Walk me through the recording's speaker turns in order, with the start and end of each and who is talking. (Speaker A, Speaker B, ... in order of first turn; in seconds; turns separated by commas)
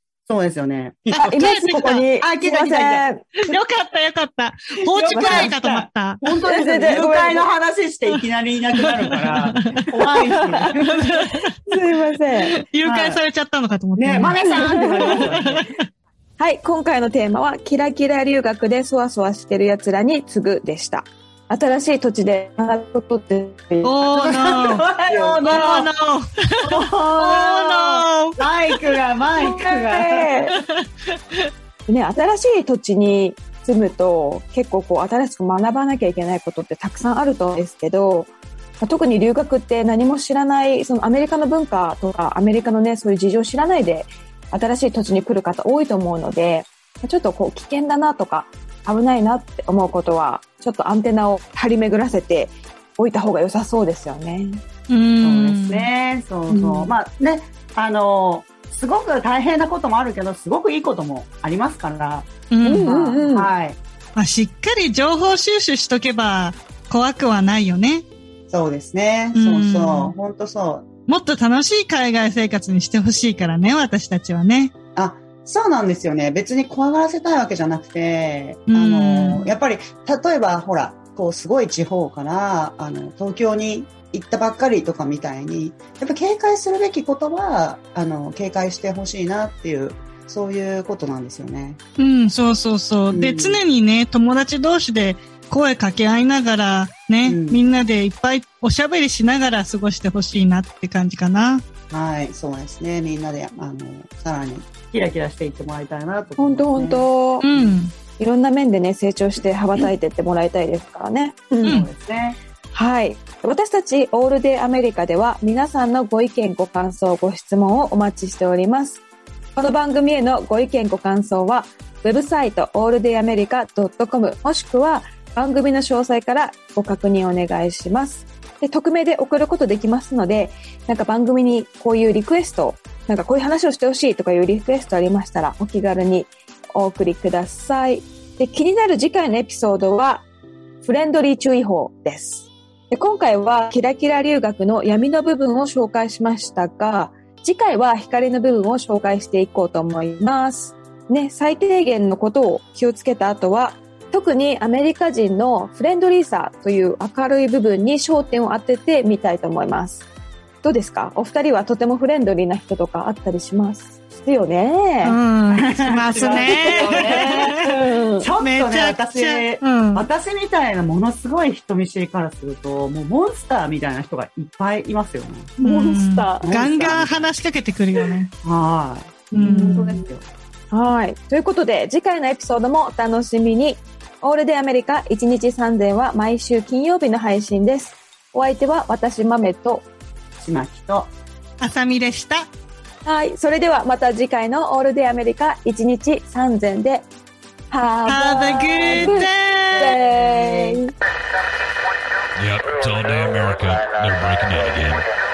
Speaker A: 0.3-3.1, Speaker B: 1.1-2.0, Speaker C: 1.2-3.5, Speaker B: 3.5-6.2, Speaker A: 4.9-11.3, Speaker C: 5.1-5.5, Speaker C: 6.5-7.5, Speaker B: 8.8-9.9, Speaker B: 10.7-11.5, Speaker C: 11.7-12.6, Speaker B: 12.5-15.8, Speaker A: 12.8-13.2, Speaker A: 13.9-15.6, Speaker C: 14.5-15.2, Speaker C: 16.4-23.9, Speaker B: 23.8-24.9, Speaker A: 24.1-25.9, Speaker C: 24.9-25.7, Speaker B: 25.5-28.4, Speaker A: 26.6-30.3, Speaker C: 29.4-30.6, Speaker C: 31.9-38.3, Speaker C: 38.8-54.6, Speaker B: 54.9-55.9, Speaker A: 55.2-63.8, Speaker C: 56.5-57.0, Speaker B: 62.5-62.9, Speaker C: 62.6-63.5, Speaker B: 64.2-68.0, Speaker A: 68.5-70.9, Speaker B: 69.3-70.1, Speaker B: 71.1-74.7, Speaker A: 75.0-91.8, Speaker B: 78.7-79.5, Speaker B: 92.0-101.6, Speaker A: 93.1-93.6, Speaker A: 97.2-97.6, Speaker A: 101.9-107.8, Speaker C: 106.4-107.4, Speaker B: 107.4-107.9, Speaker C: 108.2-111.8, Speaker A: 111.6-112.4, Speaker C: 112.7-119.0, Speaker C: 119.5-140.2, Speaker C: 140.8-160.1, Speaker C: 160.6-165.2, Speaker B: 165.0-167.7, Speaker A: 165.5-175.6, Speaker C: 166.2-168.3, Speaker B: 168.4-170.1, Speaker C: 175.6-176.5, Speaker B: 175.6-178.3, Speaker A: 176.4-177.3, Speaker A: 178.4-180.3, Speaker B: 179.3-179.9, Speaker C: 179.4-180.0, Speaker C: 180.7-189.8, Speaker A: 190.4-191.1, Speaker B: 191.6-192.5, Speaker C: 193.0-197.1, Speaker C: 197.7-200.9, Speaker B: 198.1-199.9, Speaker A: 198.8-200.8, Speaker D: 202.4-205.1